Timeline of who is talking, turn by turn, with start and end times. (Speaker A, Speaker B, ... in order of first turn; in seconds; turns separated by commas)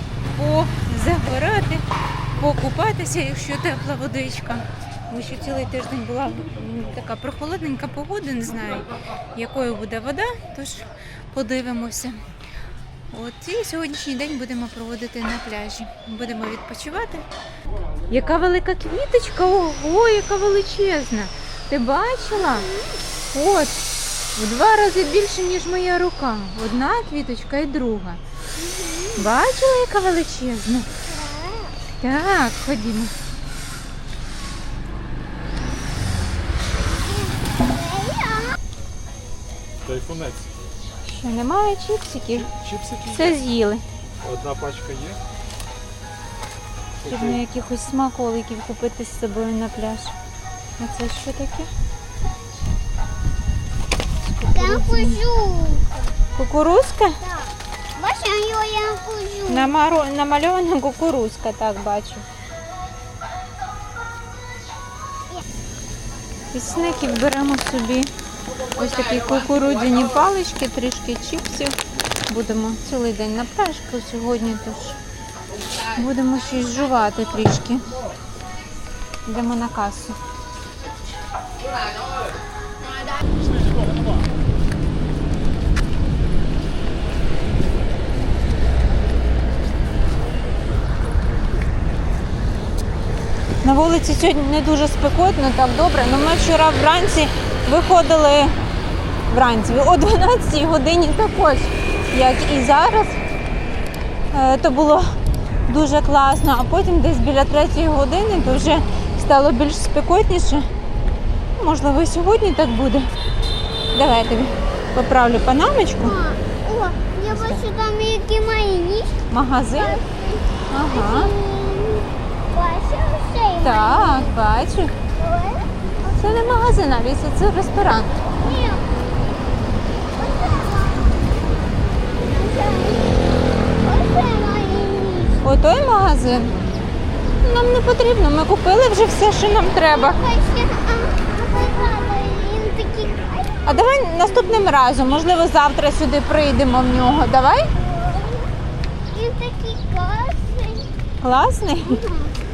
Speaker A: 0.3-1.8, Speaker A: 2.4-12.2, Speaker A: 13.1-17.2, Speaker A: 18.1-22.7, Speaker B: 22.5-23.0, Speaker A: 23.3-23.8, Speaker A: 24.4-28.2, Speaker B: 28.6-29.3, Speaker A: 29.2-30.9, Speaker B: 31.0-31.8, Speaker A: 32.0-33.1, Speaker B: 36.9-38.6, Speaker C: 39.8-40.5, Speaker A: 41.0-42.5, Speaker C: 42.5-43.4, Speaker A: 43.1-43.8, Speaker C: 44.2-45.2, Speaker C: 47.0-47.4, Speaker A: 47.1-50.1, Speaker A: 50.8-51.7, Speaker A: 54.2-55.2, Speaker B: 54.5-56.0, Speaker A: 56.4-57.2, Speaker B: 57.2-59.7, Speaker A: 59.5-62.2, Speaker A: 66.5-68.1, Speaker A: 68.7-71.8, Speaker A: 72.3-75.0, Speaker A: 75.9-77.9, Speaker A: 79.2-80.2, Speaker A: 93.6-98.6, Speaker A: 99.3-103.2, Speaker A: 104.3-105.1, Speaker A: 105.7-110.7, Speaker A: 111.6-113.1, Speaker A: 113.9-116.2, Speaker B: 116.0-119.2, Speaker A: 117.3-117.6, Speaker A: 119.3-120.0, Speaker B: 119.7-124.3, Speaker A: 120.7-121.3, Speaker A: 123.6-124.9, Speaker B: 125.2-126.7, Speaker A: 126.1-128.1, Speaker B: 128.2-129.1, Speaker B: 130.1-135.4, Speaker A: 135.4-136.6, Speaker A: 137.4-140.2, Speaker B: 139.8-144.7, Speaker A: 143.7-147.7, Speaker B: 147.8-148.5, Speaker B: 149.1-150.9, Speaker A: 151.2-152.0, Speaker B: 151.8-152.4